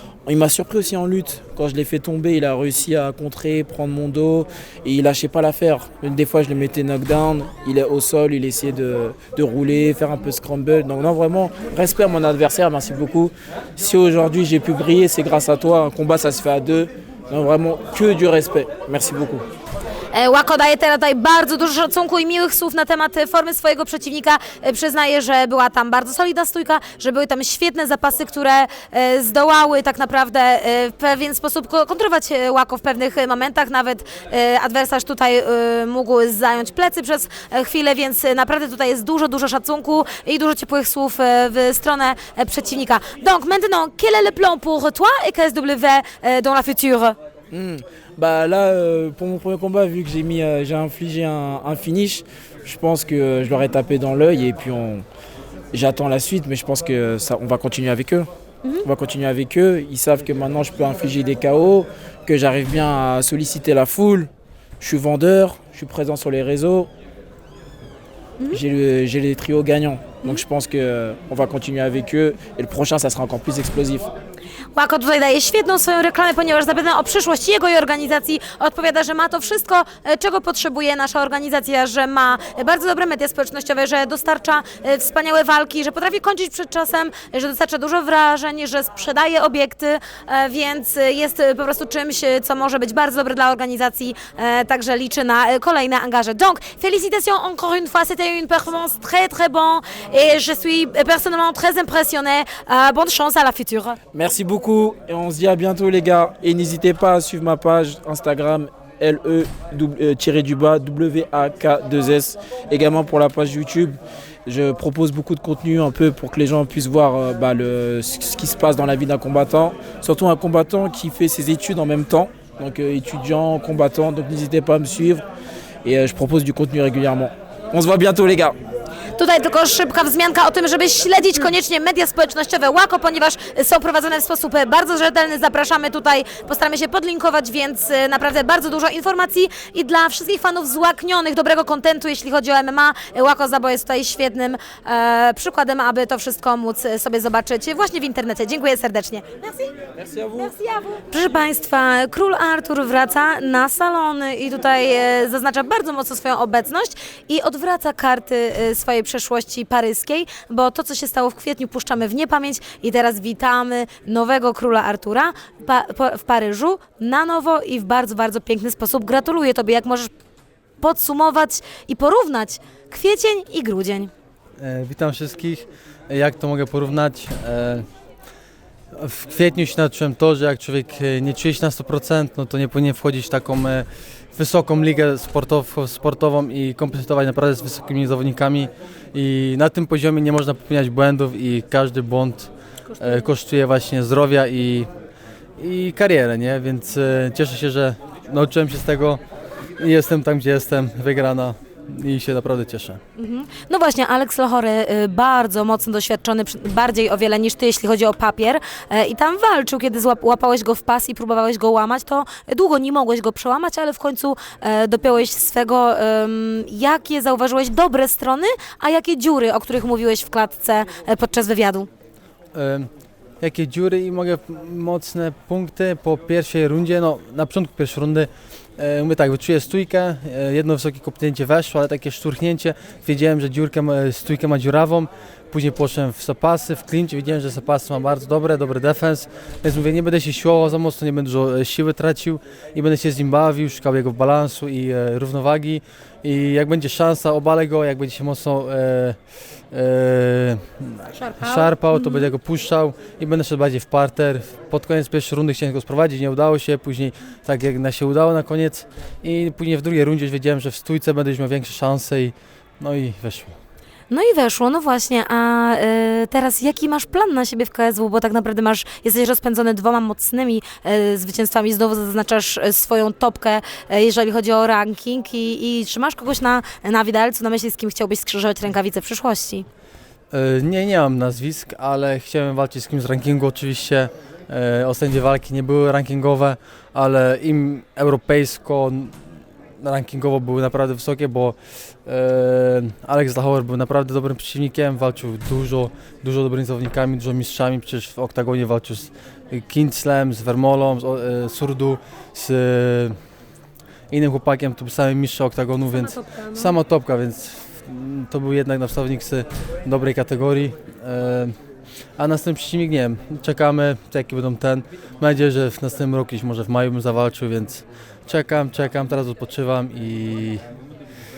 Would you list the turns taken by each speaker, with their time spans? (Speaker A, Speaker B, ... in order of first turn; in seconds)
Speaker A: 0.2-19.4, 47.5-55.0, 55.7-58.3, 58.8-64.3, 64.8-66.9, 68.5-74.1, 104.1-125.2, 125.8-128.6, 150.0-150.5
Speaker B: 20.1-47.1, 74.7-104.0, 129.1-149.7, 150.3-170.1, 170.8-174.1, 192.9-193.3, 203.2-221.9, 251.1-252.3, 264.1-279.7, 305.9-306.7
Speaker C: 174.6-177.8, 178.9-194.9, 195.6-199.2, 199.8-203.0, 222.5-222.9, 223.4-249.2, 249.7-263.5, 280.3-289.1, 289.8-303.1, 304.1-311.5, 312.2-320.6